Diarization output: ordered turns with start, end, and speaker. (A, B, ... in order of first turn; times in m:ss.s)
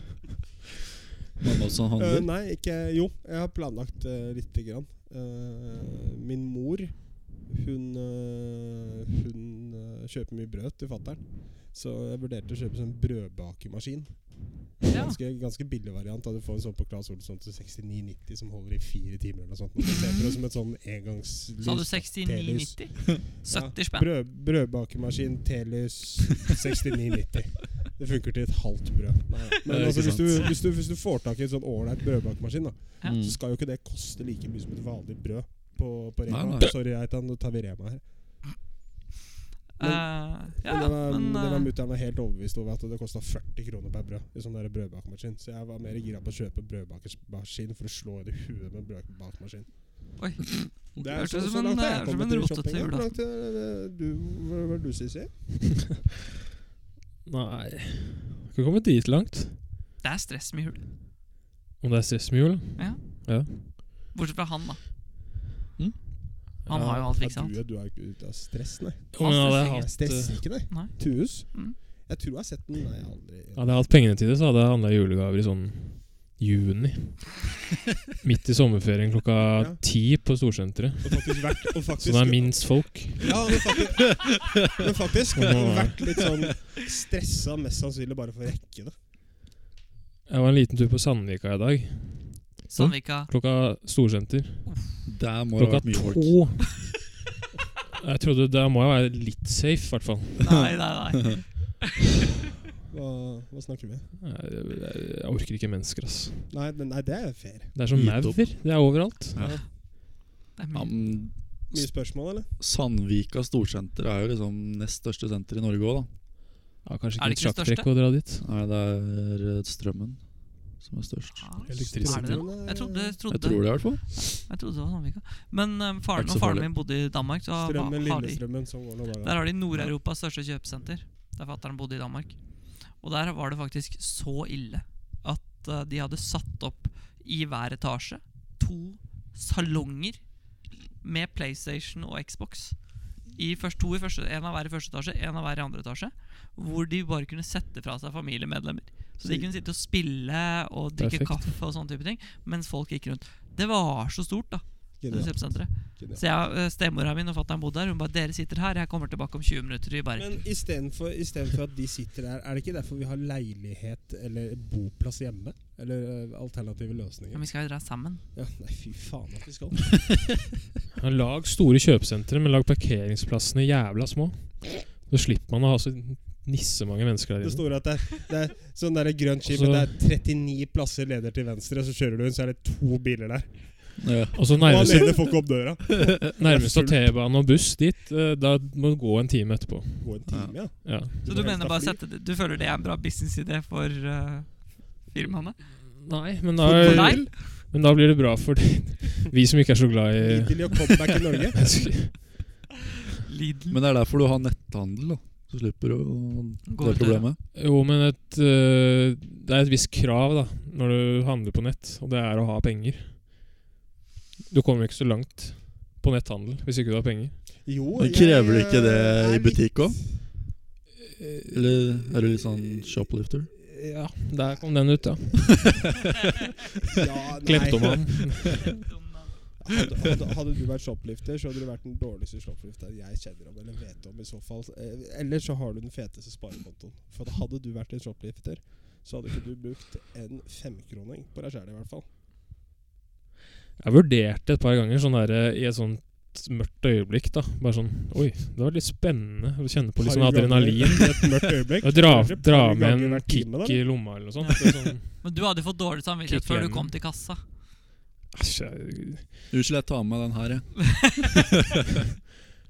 0:01.4-0:02.3 A
0:02.0-0:38.6 B
0:14.9-0:15.2 C
0:21.6-0:24.1 C
0:29.7-0:30.5 A
0:33.0-0:33.4 A
0:36.3-0:36.7 A
0:39.8-0:41.7 C
0:39.8-0:50.1 B
0:50.2-0:53.1 C
0:51.0-0:55.9 B
0:57.2-0:59.6 D
1:00.0-1:00.8 C
1:01.8-1:03.9 D
1:02.8-1:04.8 C
1:06.7-1:07.5 C
1:06.7-1:13.9 B
1:09.1-1:10.5 D
1:09.2-1:09.9 C
1:10.7-1:11.8 C
1:13.6-1:17.5 D
1:18.2-1:23.4 D
1:19.6-1:19.8 B
1:21.0-1:29.0 B
1:25.4-1:26.1 D
1:30.3-1:34.8 D
1:32.7-1:33.3 C
1:35.0-1:36.7 A
1:35.6-1:36.9 D
1:38.0-1:40.7 D
1:40.4-1:42.0 C
1:42.9-1:44.1 B
1:44.2-1:46.5 D
1:46.5-1:47.7 B
1:47.7-1:49.4 D
1:47.9-1:49.6 A
1:49.4-1:49.7 B
1:50.6-1:50.9 C
1:50.7-1:51.9 A
1:51.7-1:52.5 B
1:52.6-1:56.1 A
1:56.8-1:58.4 D
1:57.2-1:57.9 C
1:58.4-2:01.9 A
2:01.4-2:08.6 C
2:01.7-2:02.5 D
2:01.7-2:03.2 B
2:03.3-2:04.1 A
2:06.2-2:06.7 A
2:07.6-2:09.5 B
2:09.2-2:20.3 C
2:21.0-2:40.5 C
2:29.2-2:29.5 B
2:31.0-2:31.5 D
2:35.0-2:36.2 B
2:40.2-2:47.5 B
2:47.3-2:48.2 C
2:48.3-2:50.2 B
2:51.0-2:57.7 D
2:57.4-3:07.1 B
2:59.4-2:59.9 D
3:04.0-3:05.1 A
3:04.3-3:05.4 D
3:06.4-3:11.1 D
3:10.0-3:12.0 B
3:10.3-3:10.6 A
3:11.2-3:15.7 C
3:16.0-3:20.9 D
3:16.6-3:17.3 B
3:16.8-3:17.3 C
3:20.2-3:22.0 B
3:21.6-3:22.4 D
3:23.2-3:23.8 C
3:23.7-3:27.4 A
3:26.7-3:27.3 C
3:27.6-3:33.5 D
3:34.5-3:37.5 D
3:37.6-3:40.0 B
3:38.0-3:40.2 A
3:41.2-3:41.8 D
3:41.5-3:43.5 A
3:43.7-3:45.8 D
3:44.4-3:45.1 B
3:46.9-3:48.5 B
3:47.4-3:48.7 D
3:48.8-3:49.4 C
3:49.6-4:02.1 B
4:03.8-4:15.2 D
4:10.0-4:14.0 B
4:15.2-4:17.4 C
4:16.3-4:16.9 D
4:18.3-4:19.3 D
4:19.5-4:21.3 A
4:21.0-4:21.3 C